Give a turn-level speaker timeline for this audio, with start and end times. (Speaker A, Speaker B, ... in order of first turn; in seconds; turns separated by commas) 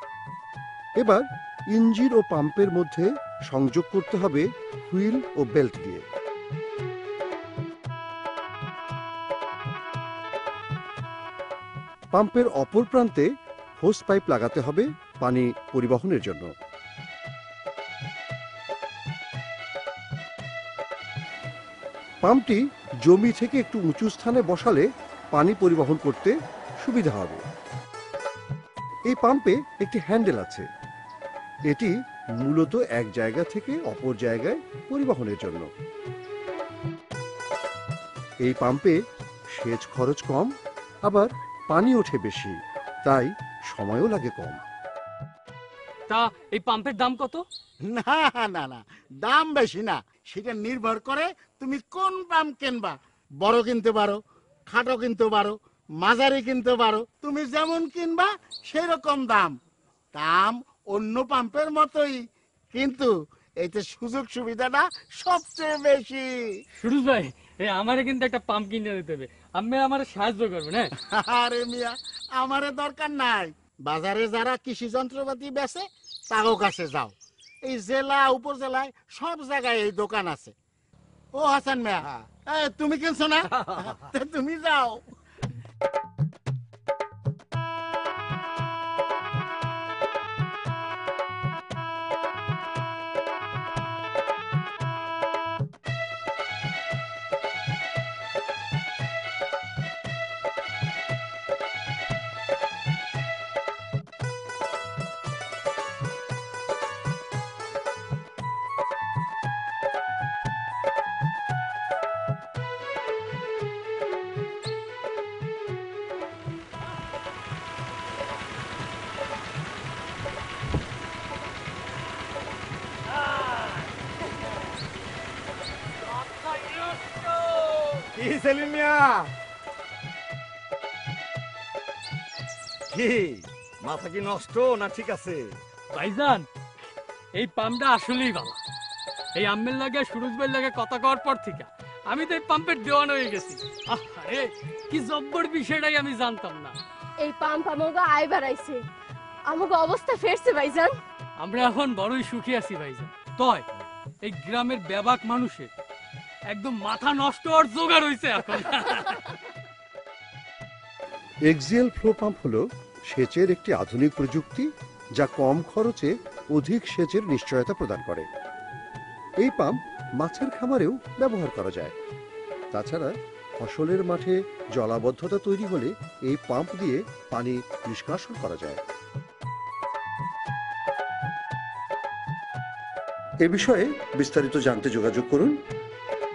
Speaker A: 1.0-6.0, Speaker A: 12.1-13.3, Speaker A: 13.8-16.5, Speaker A: 22.2-27.4, Speaker A: 29.1-30.6, Speaker A: 31.7-35.7, Speaker A: 38.4-39.0, Speaker A: 39.5-40.5, Speaker A: 41.0-44.6, Speaker B: 46.1-47.4, Speaker C: 47.8-59.5, Speaker C: 60.1-62.2, Speaker C: 62.7-66.3, Speaker B: 66.8-70.9, Speaker C: 71.1-80.5, Speaker C: 81.3-85.0, Speaker B: 123.3-123.6, Speaker B: 126.0-128.1, Speaker D: 128.1-129.2, Speaker D: 132.9-135.5, Speaker B: 135.9-136.4, Speaker B: 137.3-138.6, Speaker B: 139.4-146.8, Speaker E: 147.2-148.8, Speaker E: 149.5-150.9, Speaker B: 151.4-153.6, Speaker B: 154.2-155.7, Speaker B: 156.5-159.3, Speaker A: 161.5-168.3, Speaker A: 169.4-171.9, Speaker A: 172.7-178.8, Speaker A: 183.4-185.6